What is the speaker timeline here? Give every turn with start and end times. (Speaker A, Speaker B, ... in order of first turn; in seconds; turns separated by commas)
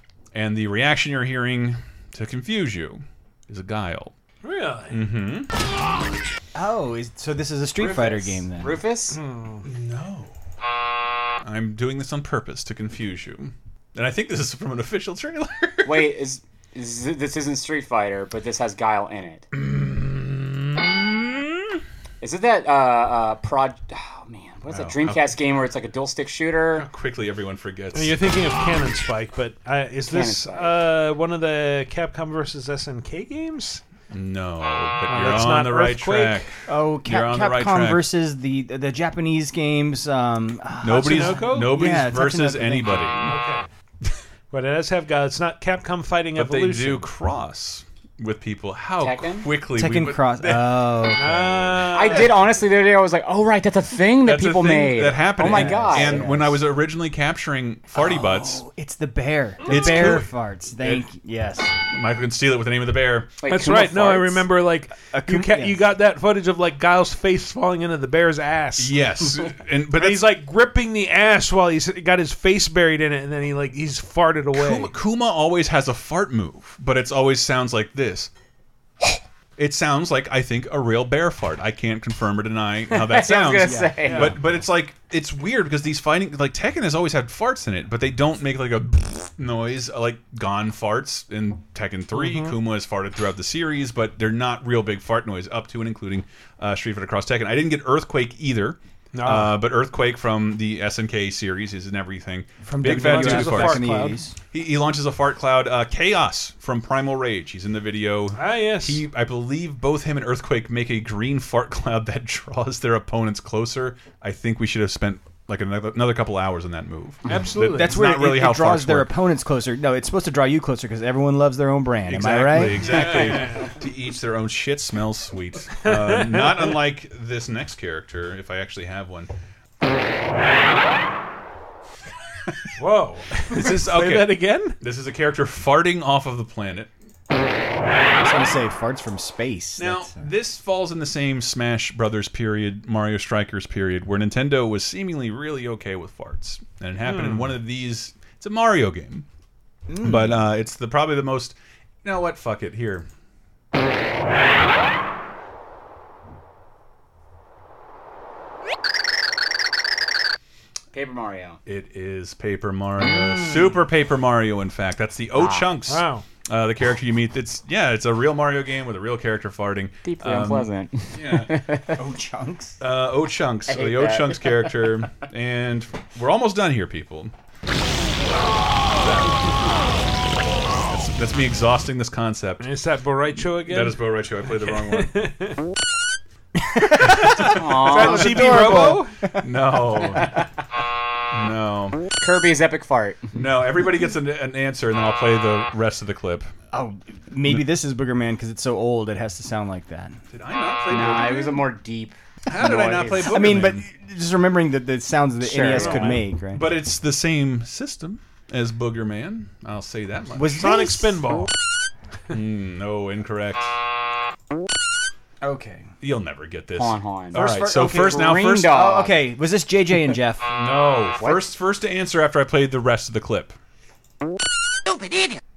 Speaker A: 0.3-4.1, Speaker B: 4.4-5.0, Speaker A: 4.9-5.5, Speaker C: 6.5-8.8, Speaker D: 7.8-9.2, Speaker B: 9.1-9.7, Speaker A: 9.6-10.3, Speaker A: 11.4-16.1, Speaker D: 15.8-19.5, Speaker A: 19.5-21.3, Speaker D: 22.2-26.9, Speaker A: 24.7-25.3, Speaker A: 26.7-28.1, Speaker B: 27.9-33.8, Speaker D: 30.1-30.7, Speaker A: 34.1-36.5, Speaker B: 35.1-36.5, Speaker C: 36.7-43.1, Speaker A: 37.0-38.1, Speaker A: 40.8-43.4, Speaker B: 40.9-41.8, Speaker B: 43.3-43.7, Speaker B: 44.5-47.1, Speaker A: 46.4-50.8, Speaker D: 49.0-49.5, Speaker C: 49.7-51.9, Speaker B: 51.1-52.5, Speaker D: 51.9-56.5, Speaker A: 54.2-58.6, Speaker C: 55.4-56.5, Speaker C: 57.9-61.7, Speaker A: 59.6-61.0, Speaker A: 61.9-63.3, Speaker D: 63.4-64.5, Speaker B: 63.5-69.0, Speaker C: 65.1-65.8, Speaker A: 68.8-70.3, Speaker B: 69.9-74.9, Speaker A: 74.5-78.3, Speaker A: 79.6-103.9, Speaker D: 82.9-84.3, Speaker C: 83.6-84.1, Speaker B: 84.0-84.3, Speaker B: 92.1-92.5, Speaker B: 99.1-99.6, Speaker C: 102.6-104.3, Speaker B: 102.8-104.2, Speaker A: 104.5-119.1, Speaker B: 108.3-109.0, Speaker B: 117.2-118.0, Speaker C: 117.3-123.1, Speaker A: 122.1-129.3, Speaker B: 122.7-123.7, Speaker B: 125.8-126.8, Speaker B: 132.8-134.8, Speaker A: 133.5-136.9, Speaker C: 138.2-140.3, Speaker A: 139.8-149.2, Speaker B: 147.0-147.6, Speaker C: 149.9-150.4, Speaker A: 150.0-153.1, Speaker D: 160.9-161.6, Speaker A: 161.7-171.5, Speaker D: 165.3-165.7, Speaker B: 165.9-166.2, Speaker D: 170.0-172.0, Speaker C: 171.9-172.8, Speaker A: 172.8-177.3, Speaker D: 173.7-174.9, Speaker A: 178.8-179.7, Speaker A: 180.9-182.7, Speaker B: 182.6-185.6, Speaker A: 183.6-185.2, Speaker C: 186.6-189.4, Speaker A: 187.0-187.6, Speaker D: 187.4-188.8, Speaker B: 187.8-189.1, Speaker A: 189.4-190.3, Speaker D: 190.0-190.4, Speaker A: 191.3-192.0, Speaker D: 192.2-193.3, Speaker A: 193.3-196.5, Speaker C: 196.7-200.2, Speaker A: 200.3-201.7, Speaker D: 200.9-203.6, Speaker A: 202.5-203.8, Speaker C: 203.2-206.7, Speaker D: 205.4-206.2, Speaker A: 205.7-210.6, Speaker B: 205.7-206.1, Speaker C: 210.3-211.5, Speaker B: 210.5-211.5, Speaker A: 212.3-213.7, Speaker C: 215.4-215.9, Speaker A: 216.0-218.7, Speaker D: 216.8-219.1, Speaker C: 217.3-220.5, Speaker A: 220.5-223.6, Speaker D: 221.2-221.4